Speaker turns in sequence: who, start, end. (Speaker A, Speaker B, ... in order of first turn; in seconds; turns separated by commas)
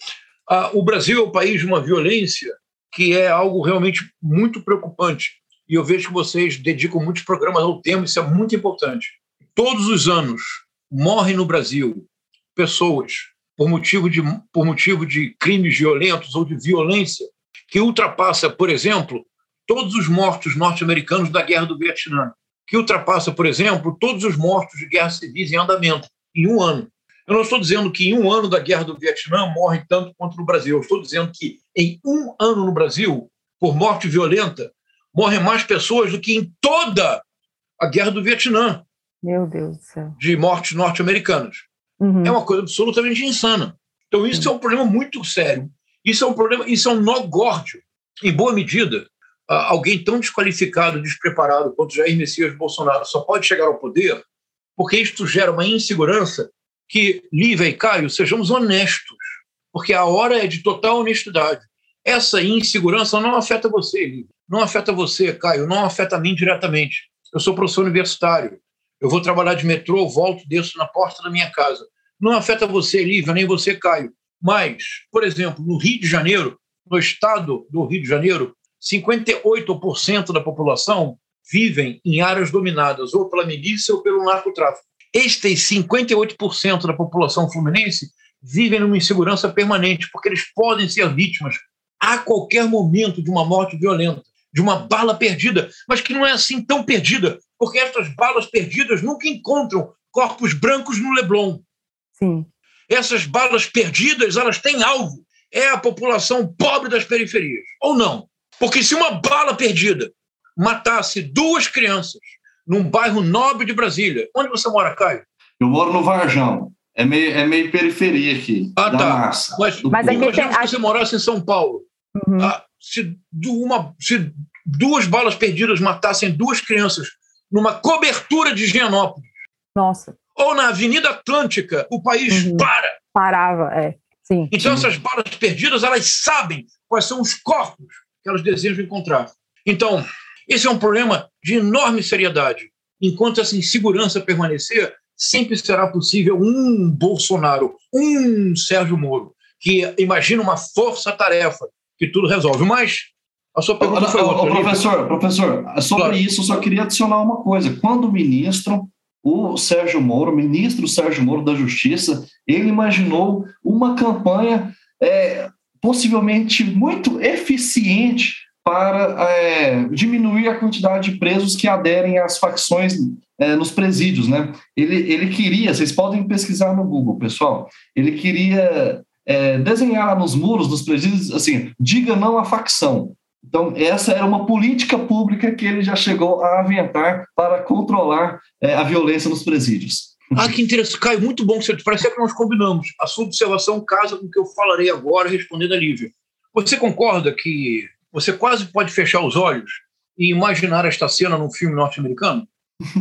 Speaker A: 0.5-37.2, Speaker A: 37.8-38.8, Speaker B: 39.2-40.1, Speaker A: 40.2-41.6, Speaker B: 42.0-42.3, Speaker A: 42.2-54.2, Speaker A: 54.8-101.6, Speaker B: 102.2-102.5, Speaker A: 102.9-115.2, Speaker C: 115.6-120.3, Speaker A: 118.8-121.8, Speaker B: 119.9-120.7, Speaker B: 122.2-122.5, Speaker A: 122.4-129.3, Speaker B: 129.7-130.1, Speaker A: 130.3-132.9, Speaker B: 132.3-134.5, Speaker A: 134.5-154.8, Speaker C: 134.6-134.9, Speaker C: 153.8-190.2, Speaker A: 190.3-202.5